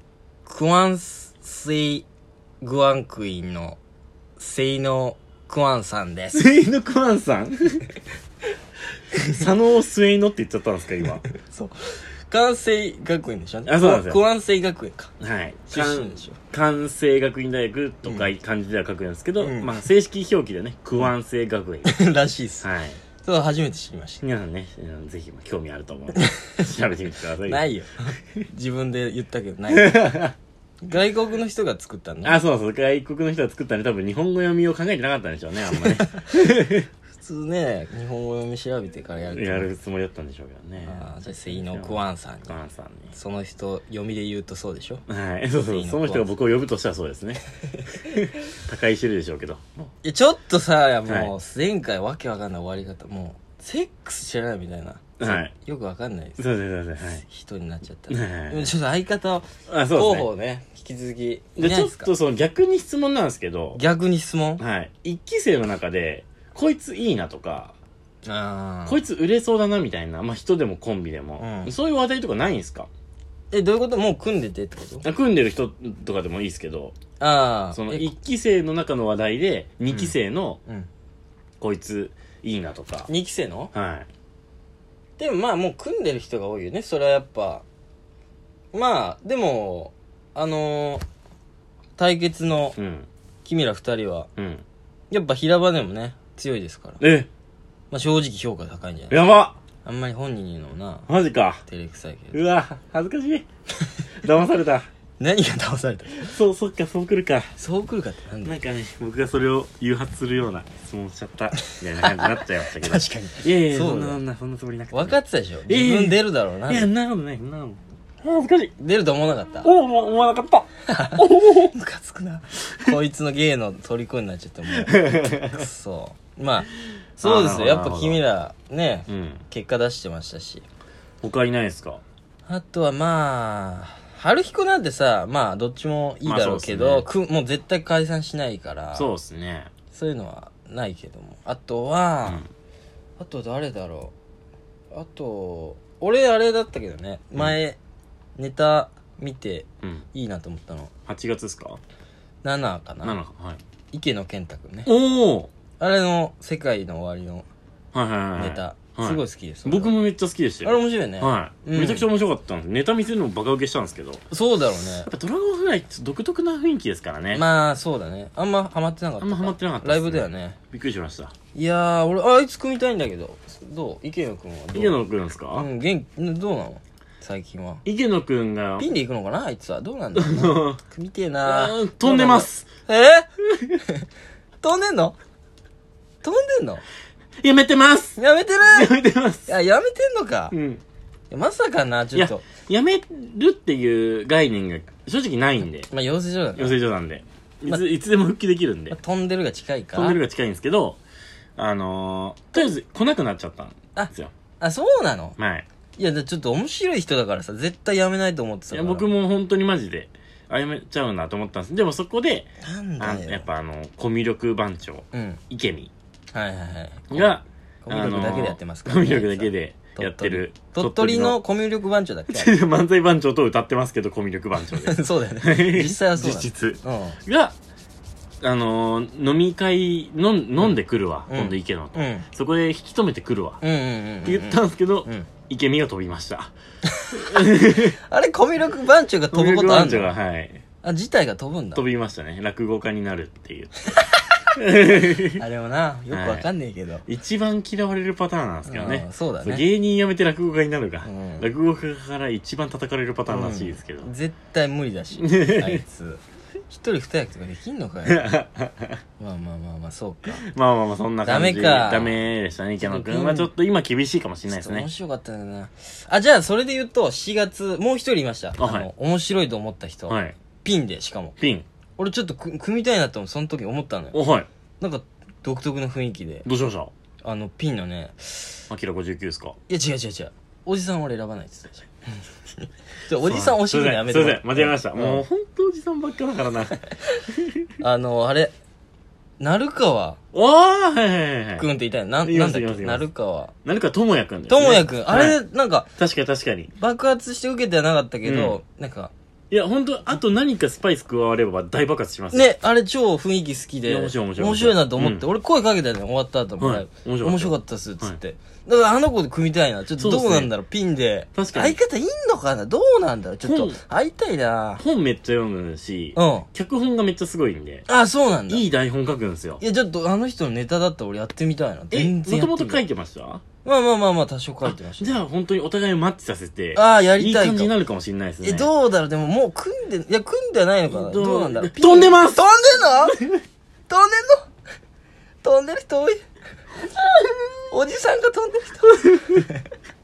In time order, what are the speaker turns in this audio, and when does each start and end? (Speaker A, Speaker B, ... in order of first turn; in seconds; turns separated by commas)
Speaker A: 0.5-2.1, Speaker A: 2.6-3.8, Speaker A: 4.4-6.4, Speaker B: 6.3-7.8, Speaker B: 9.2-11.3, Speaker A: 11.3-15.1, Speaker B: 13.7-14.2, Speaker B: 15.2-21.9, Speaker A: 15.7-16.4, Speaker A: 19.4-19.8, Speaker A: 21.9-22.7, Speaker B: 22.6-23.0, Speaker A: 23.2-24.2, Speaker B: 24.2-27.7, Speaker A: 26.2-26.6, Speaker A: 27.5-30.2, Speaker B: 29.7-30.4, Speaker A: 30.8-32.4, Speaker B: 32.2-36.9, Speaker A: 35.8-36.2, Speaker A: 37.1-39.7, Speaker B: 39.3-43.1, Speaker A: 40.8-42.6, Speaker A: 43.1-45.0, Speaker B: 45.1-47.4, Speaker A: 45.6-46.3, Speaker B: 48.1-49.9, Speaker A: 50.0-56.4, Speaker B: 51.1-51.3, Speaker B: 55.2-55.5, Speaker B: 56.4-57.2, Speaker A: 57.2-62.1, Speaker B: 58.1-58.7, Speaker B: 59.7-60.3, Speaker B: 61.6-63.8, Speaker A: 63.8-64.6, Speaker B: 64.6-67.8, Speaker A: 68.2-69.0, Speaker B: 68.9-72.9, Speaker A: 71.4-71.7, Speaker A: 73.5-75.1, Speaker B: 75.0-77.0, Speaker A: 77.2-78.1, Speaker B: 77.7-80.6, Speaker B: 81.6-83.1, Speaker A: 83.1-83.7, Speaker B: 83.7-84.1, Speaker A: 85.2-87.6, Speaker A: 88.7-91.0, Speaker A: 92.0-92.8, Speaker B: 92.8-93.1, Speaker A: 93.5-94.3, Speaker B: 94.4-94.6, Speaker A: 95.1-97.0, Speaker B: 97.0-97.3, Speaker A: 97.9-99.2, Speaker B: 99.1-99.6, Speaker A: 99.8-101.1, Speaker B: 101.1-101.6, Speaker A: 101.7-102.4, Speaker B: 102.3-103.5, Speaker B: 104.2-104.9, Speaker A: 105.2-106.3, Speaker B: 106.1-107.5, Speaker A: 107.6-108.6, Speaker B: 108.5-118.7, Speaker A: 111.6-114.2, Speaker A: 114.9-116.9, Speaker A: 118.8-119.7, Speaker B: 119.6-121.8, Speaker A: 120.9-130.6, Speaker B: 124.7-125.7, Speaker B: 127.2-128.2, Speaker B: 129.1-129.4, Speaker B: 131.2-132.0, Speaker A: 132.5-139.1, Speaker B: 136.2-137.1, Speaker B: 138.9-139.7, Speaker A: 139.9-142.4, Speaker A: 143.2-144.1, Speaker A: 144.9-147.8, Speaker A: 148.4-150.9, Speaker B: 151.1-151.8, Speaker A: 152.4-153.2, Speaker B: 153.0-153.6, Speaker A: 153.9-154.9, Speaker B: 154.9-155.5, Speaker A: 155.8-157.5, Speaker B: 157.9-164.3, Speaker A: 158.4-159.9, Speaker A: 160.6-162.1, Speaker A: 164.3-165.1, Speaker B: 165.0-167.4, Speaker A: 167.3-170.6, Speaker B: 169.2-171.3, Speaker A: 171.5-175.0, Speaker B: 174.7-175.7, Speaker A: 175.6-177.8, Speaker B: 177.8-178.9, Speaker A: 178.8-184.1, Speaker B: 180.2-180.8, Speaker B: 181.4-182.7, Speaker A: 184.6-185.2, Speaker A: 186.2-186.8, Speaker B: 187.4-189.5, Speaker A: 188.2-190.6, Speaker B: 190.5-190.8, Speaker A: 191.3-192.5, Speaker B: 192.2-195.9, Speaker A: 195.9-196.8, Speaker B: 196.6-199.0, Speaker A: 198.9-200.2, Speaker B: 199.9-201.0, Speaker B: 201.6-204.3, Speaker A: 204.0-205.4, Speaker B: 205.4-205.7, Speaker A: 206.0-209.1, Speaker B: 208.7-215.9, Speaker A: 212.6-213.5, Speaker A: 215.1-215.4, Speaker A: 216.3-217.3, Speaker B: 217.1-221.4, Speaker A: 217.8-222.5, Speaker B: 222.3-227.6, Speaker A: 224.7-227.2, Speaker B: 228.4-233.6, Speaker A: 231.3-232.3, Speaker A: 233.6-235.3, Speaker B: 234.2-236.5, Speaker A: 236.9-240.2, Speaker B: 237.1-238.0, Speaker B: 239.3-240.6, Speaker A: 240.8-241.8, Speaker B: 241.8-243.8, Speaker A: 243.9-244.6, Speaker B: 244.6-245.4, Speaker A: 245.2-247.1, Speaker B: 246.1-246.5, Speaker B: 247.1-254.1, Speaker A: 248.7-249.7, Speaker A: 251.0-251.5, Speaker A: 253.3-258.3, Speaker B: 255.2-255.8, Speaker B: 258.1-259.0, Speaker A: 259.2-260.5, Speaker B: 260.4-264.9, Speaker A: 261.2-262.2, Speaker A: 262.8-263.5, Speaker A: 264.5-271.4, Speaker B: 268.6-268.9, Speaker B: 270.1-270.4, Speaker B: 271.4-271.7, Speaker A: 272.0-274.2, Speaker B: 274.1-274.5, Speaker A: 274.8-276.5, Speaker B: 276.4-276.9, Speaker A: 277.2-278.6, Speaker B: 278.7-279.6, Speaker A: 279.7-285.2, Speaker B: 283.2-286.8, Speaker A: 287.8-288.5, Speaker A: 289.4-290.2, Speaker B: 290.3-291.7, Speaker A: 291.6-293.5, Speaker B: 292.2-293.1, Speaker B: 293.6-295.4, Speaker A: 294.5-295.9, Speaker B: 296.0-296.7, Speaker A: 296.8-299.1, Speaker B: 298.2-298.6, Speaker B: 299.5-302.5, Speaker A: 302.3-314.8, Speaker B: 303.9-305.3, Speaker B: 306.6-308.2, Speaker B: 309.9-310.5, Speaker B: 311.4-311.8, Speaker B: 313.4-313.8, Speaker B: 314.8-317.9, Speaker A: 316.1-316.5, Speaker A: 317.9-318.6, Speaker B: 318.5-319.6, Speaker A: 319.6-322.8, Speaker B: 321.9-323.4, Speaker A: 323.6-325.2, Speaker B: 324.7-328.7, Speaker A: 326.7-327.7, Speaker A: 328.4-333.3, Speaker B: 330.9-332.6, Speaker A: 333.9-334.5, Speaker A: 335.4-336.2, Speaker A: 336.8-339.7